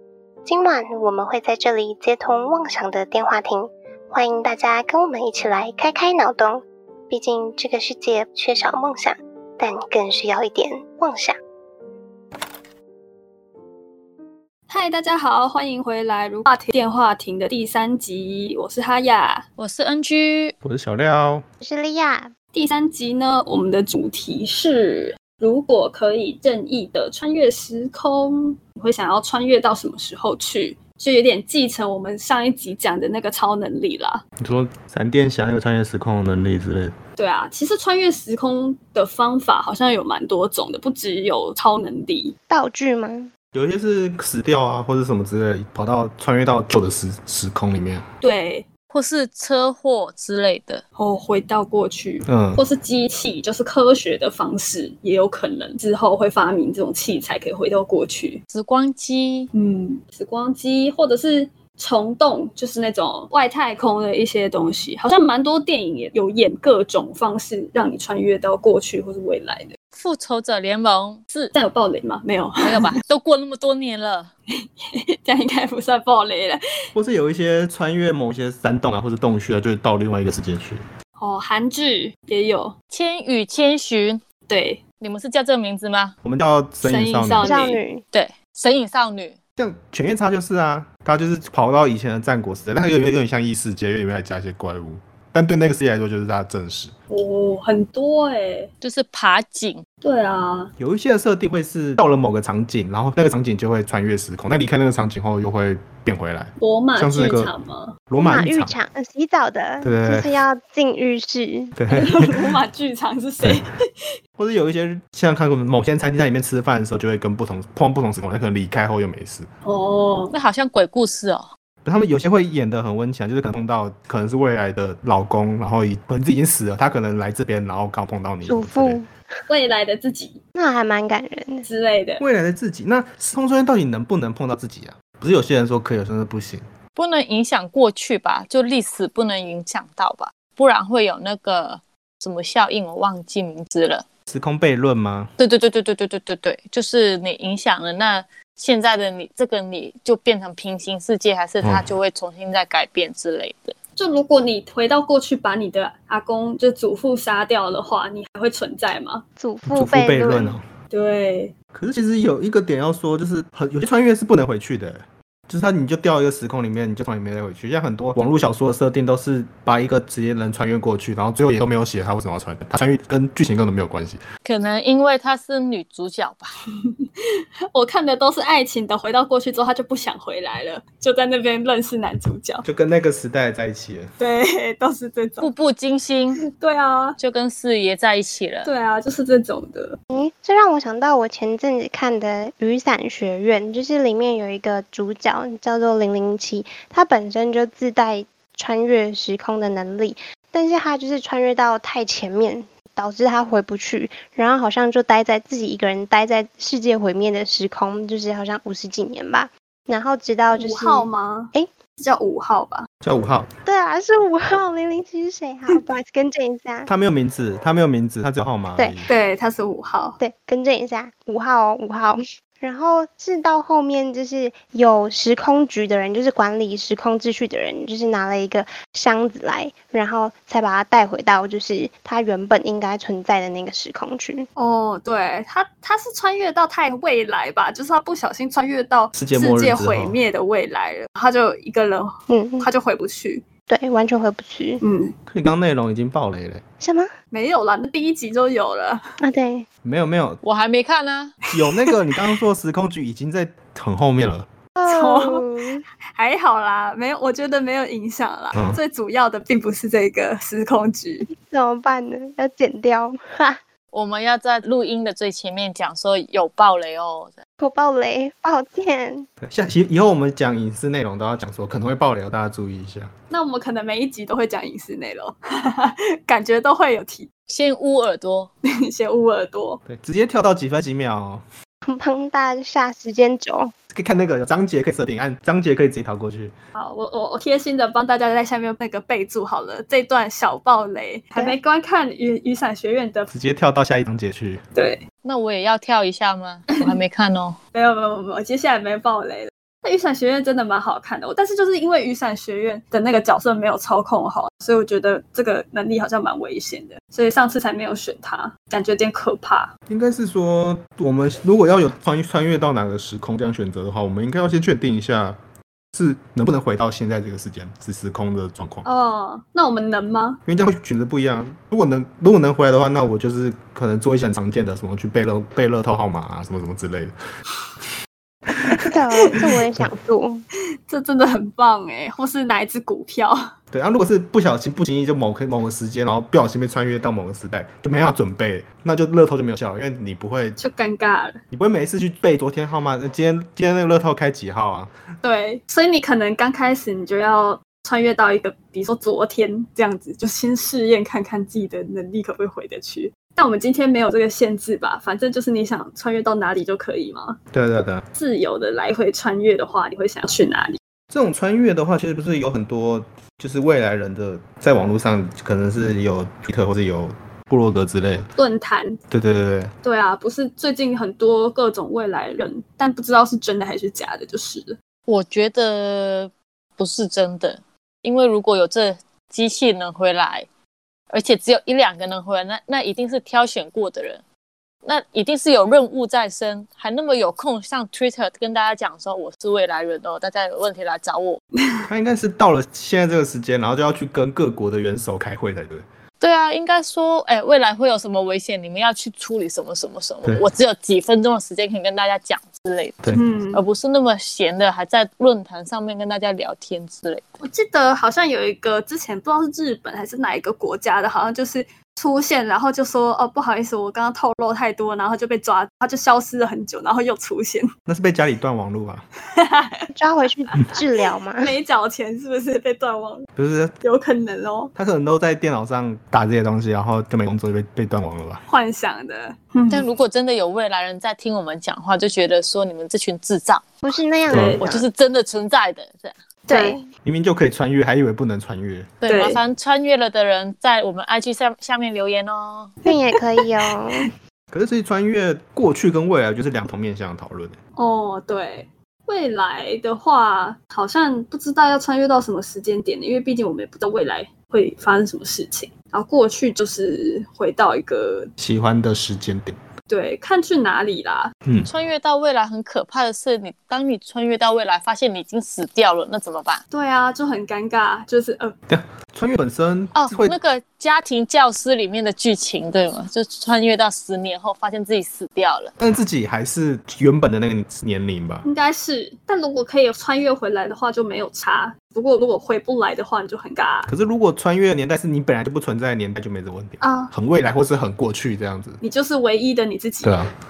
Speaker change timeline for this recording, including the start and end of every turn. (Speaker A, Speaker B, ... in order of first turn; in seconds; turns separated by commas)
Speaker A: 0.5-11.4, Speaker B: 14.7-19.5, Speaker C: 19.6-20.6, Speaker D: 20.6-21.4, Speaker E: 21.6-22.3, Speaker B: 22.5-34.2, Speaker D: 34.4-37.0, Speaker B: 37.2-42.4, Speaker E: 42.5-43.3, Speaker D: 43.5-48.0, Speaker B: 48.2-48.7, Speaker C: 48.9-50.8, Speaker B: 51.0-58.4, Speaker D: 52.3-52.6, Speaker C: 58.5-59.5, Speaker B: 59.5-69.7, Speaker C: 70.0-71.5, Speaker B: 71.5-72.9, Speaker C: 72.6-74.3, Speaker B: 74.9-76.6, Speaker D: 77.0-80.8, Speaker B: 81.2-82.8, Speaker C: 82.9-84.2, Speaker B: 84.5-84.8, Speaker C: 85.0-86.2, Speaker D: 86.2-87.6, Speaker B: 86.8-87.8, Speaker E: 87.4-88.0, Speaker C: 88.1-89.4, Speaker D: 89.6-96.9, Speaker B: 97.1-98.7, Speaker C: 98.8-99.8, Speaker B: 100.0-100.7, Speaker D: 100.8-107.5, Speaker B: 106.6-108.0, Speaker D: 108.1-108.7, Speaker E: 108.2-111.8, Speaker D: 109.8-110.3, Speaker D: 111.8-112.5, Speaker B: 111.9-113.8, Speaker D: 114.4-119.5, Speaker B: 119.7-120.3, Speaker C: 120.3-121.5, Speaker D: 121.8-129.0, Speaker E: 128.4-129.1, Speaker B: 129.5-130.4, Speaker E: 130.6-131.7, Speaker B: 131.6-132.2, Speaker D: 132.2-136.7, Speaker C: 137.0-144.1, Speaker D: 144.3-145.3, Speaker C: 145.4-153.8, Speaker B: 154.0-159.2, Speaker E: 159.4-160.6, Speaker D: 159.7-160.7, Speaker B: 160.9-161.5, Speaker D: 161.8-174.2, Speaker C: 174.4-176.6, Speaker B: 177.7-182.7, Speaker D: 182.7-184.1, Speaker B: 184.2-185.5, Speaker C: 185.4-186.4, Speaker B: 186.4-187.2, Speaker C: 187.2-188.7, Speaker B: 188.6-190.0, Speaker E: 190.1-211.7, Speaker B: 210.6-212.9, Speaker D: 213.0-213.5, Speaker E: 213.7-216.9, Speaker D: 216.9-219.1, Speaker B: 219.1-220.2, Speaker E: 220.2-234.5, Speaker B: 234.6-243.4, Speaker D: 239.1-240.2, Speaker E: 242.3-242.7, Speaker E: 243.7-244.8, Speaker B: 244.8-245.2, Speaker D: 245.3-246.7, Speaker E: 246.8-247.1, Speaker B: 247.3-249.0, Speaker E: 249.2-249.7, Speaker D: 249.8-250.4, Speaker C: 250.4-251.3, Speaker D: 251.5-254.5, Speaker E: 254.8-255.8, Speaker B: 254.9-255.5, Speaker B: 256.1-261.3, Speaker D: 258.5-258.8, Speaker E: 261.3-263.6, Speaker C: 263.9-267.4, Speaker E: 267.6-269.3, Speaker D: 269.4-273.1, Speaker B: 273.3-277.3, Speaker C: 277.5-278.5, Speaker B: 278.7-279.8, Speaker D: 279.9-281.4, Speaker E: 281.9-283.7, Speaker D: 283.9-286.5, Speaker B: 286.8-293.3, Speaker D: 293.3-294.6, Speaker B: 294.8-295.0, Speaker C: 295.2-297.6, Speaker B: 297.7-309.7, Speaker D: 309.9-315.4, Speaker D: 315.9-318.9, Speaker B: 318.9-320.4, Speaker D: 320.5-327.1, Speaker D: 328.5-328.9, Speaker E: 328.8-330.5, Speaker B: 330.9-333.4, Speaker D: 333.7-340.6, Speaker B: 340.6-341.4, Speaker D: 341.5-344.9, Speaker B: 345.2-357.4, Speaker D: 357.5-358.1, Speaker B: 358.1-360.8, Speaker D: 361.1-368.3, Speaker B: 368.4-369.0, Speaker D: 369.1-369.7, Speaker B: 369.8-374.8, Speaker C: 375.1-380.5, Speaker C: 381.1-384.2, Speaker C: 384.8-391.4, Speaker D: 391.9-395.8, Speaker C: 396.2-407.4, Speaker B: 403.1-403.6, Speaker B: 407.4-417.7, Speaker D: 417.9-419.1, Speaker B: 419.4-419.9, Speaker E: 419.9-421.5, Speaker B: 421.4-423.3, Speaker D: 423.4-423.8, Speaker B: 423.8-424.7, Speaker D: 424.8-428.4, Speaker B: 428.5-429.9, Speaker C: 429.7-433.7, Speaker E: 433.8-434.9, Speaker D: 434.3-434.6, Speaker B: 434.3-434.6, Speaker C: 434.6-436.2, Speaker B: 436.5-436.8, Speaker E: 436.5-436.8, Speaker D: 437.0-439.0, Speaker C: 439.0-442.8, Speaker B: 439.1-439.4, Speaker B: 442.9-444.1, Speaker E: 442.9-444.1, Speaker D: 444.5-447.6, Speaker B: 447.8-458.3, Speaker D: 458.4-459.6, Speaker B: 459.9-461.3, Speaker D: 461.4-461.7, Speaker C: 461.6-466.6, Speaker B: 466.7-468.6, Speaker D: 468.7-470.4, Speaker C: 469.9-475.7, Speaker D: 475.8-478.4, Speaker B: 478.4-483.9, Speaker D: 483.9-488.8, Speaker B: 486.8-487.1, Speaker B: 488.8-490.2, Speaker D: 490.0-490.3